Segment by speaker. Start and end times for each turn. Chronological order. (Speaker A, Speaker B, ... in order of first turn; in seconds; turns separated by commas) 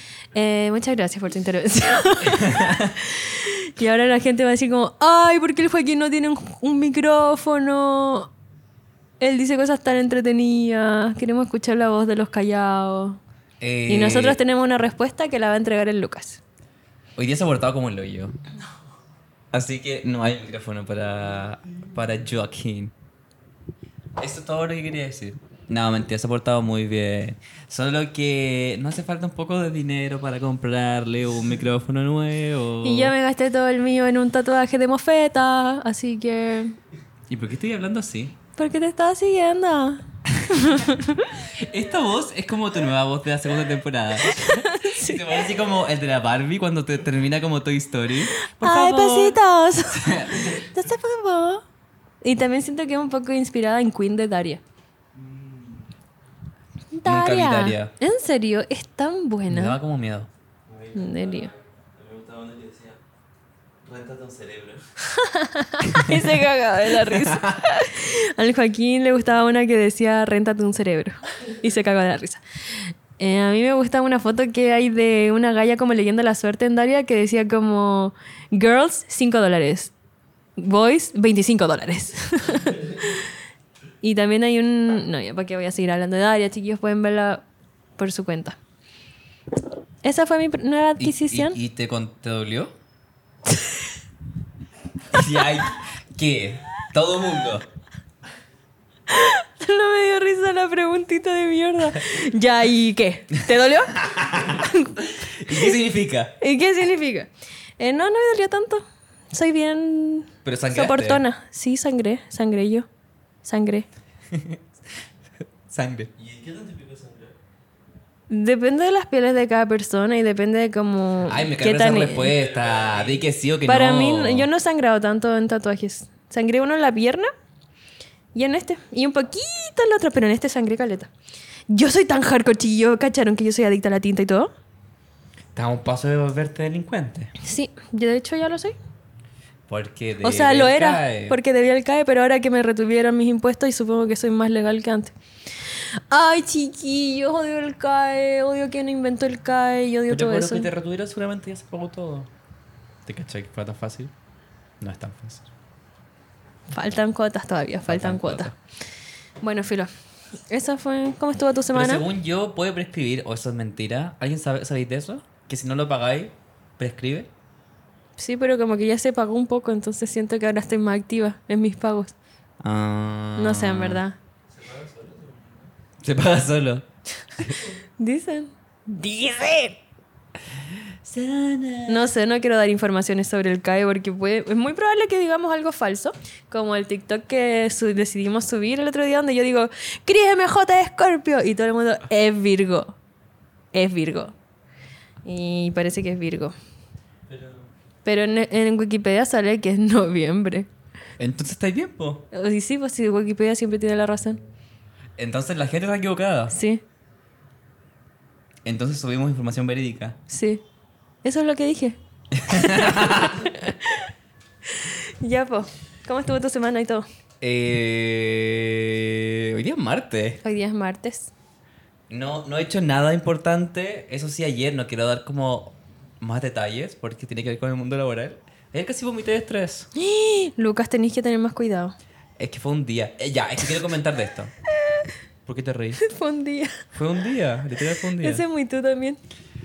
Speaker A: 0.3-8.3, Speaker B: 2.3-2.9, Speaker A: 9.2-13.2, Speaker B: 13.6-14.4, Speaker A: 13.9-16.4, Speaker B: 17.1-18.3, Speaker B: 19.5-22.9, Speaker B: 24.2-33.1, Speaker A: 32.8-36.8, Speaker B: 37.3-38.4, Speaker A: 38.6-41.4, Speaker B: 41.5-49.4, Speaker A: 44.2-45.4, Speaker A: 48.3-51.6, Speaker B: 50.0-50.5, Speaker A: 52.2-54.6, Speaker C: 55.1-55.9, Speaker A: 56.9-59.8, Speaker B: 57.0-57.9, Speaker B: 59.5-60.3, Speaker C: 60.7-63.0, Speaker A: 60.9-61.5, Speaker C: 63.8-64.8, Speaker A: 65.1-79.9, Speaker B: 65.9-66.2, Speaker B: 66.9-67.6, Speaker A: 80.6-83.2, Speaker A: 84.0-87.4, Speaker A: 88.0-88.6, Speaker A: 90.0-91.6, Speaker B: 91.0-92.8, Speaker A: 93.5-93.8, Speaker B: 95.1-97.7, Speaker A: 99.1-104.9, Speaker B: 103.9-106.3, Speaker A: 106.4-112.9, Speaker B: 110.4-111.2, Speaker A: 113.4-113.8, Speaker B: 114.3-114.6, Speaker B: 115.7-116.1, Speaker C: 116.2-117.3, Speaker A: 118.3-122.3, Speaker B: 121.2-124.5, Speaker C: 122.2-123.2, Speaker A: 123.7-127.3, Speaker A: 128.3-131.1, Speaker A: 131.7-134.5, Speaker B: 135.5-137.3, Speaker A: 137.4-138.8, Speaker B: 139.7-141.4, Speaker A: 140.2-145.1, Speaker A: 146.1-150.7, Speaker B: 150.1-152.3, Speaker B: 153.1-154.1, Speaker B: 154.8-155.5, Speaker A: 156.7-158.5, Speaker B: 157.9-158.5, Speaker A: 159.4-159.9, Speaker A: 160.5-162.0, Speaker B: 161.7-167.3, Speaker A: 168.2-172.1, Speaker B: 172.6-174.0, Speaker A: 173.3-174.2, Speaker C: 174.5-175.7, Speaker B: 176.0-176.8, Speaker A: 178.0-179.8, Speaker B: 181.0-182.1, Speaker A: 181.9-193.0, Speaker A: 193.7-194.3, Speaker A: 195.2-196.5, Speaker C: 197.3-197.7, Speaker A: 198.0-200.7, Speaker B: 201.2-202.3, Speaker A: 202.3-204.4, Speaker B: 205.2-206.5, Speaker A: 206.5-206.8, Speaker B: 208.6-210.2, Speaker A: 210.3-210.6, Speaker A: 211.2-214.1, Speaker B: 212.3-213.5, Speaker A: 214.7-217.0, Speaker B: 217.4-220.4, Speaker A: 220.4-221.3, Speaker B: 222.1-229.9, Speaker A: 229.9-231.9, Speaker B: 232.4-234.5, Speaker B: 235.4-236.0, Speaker A: 236.0-236.8, Speaker B: 236.9-238.4, Speaker A: 238.2-239.2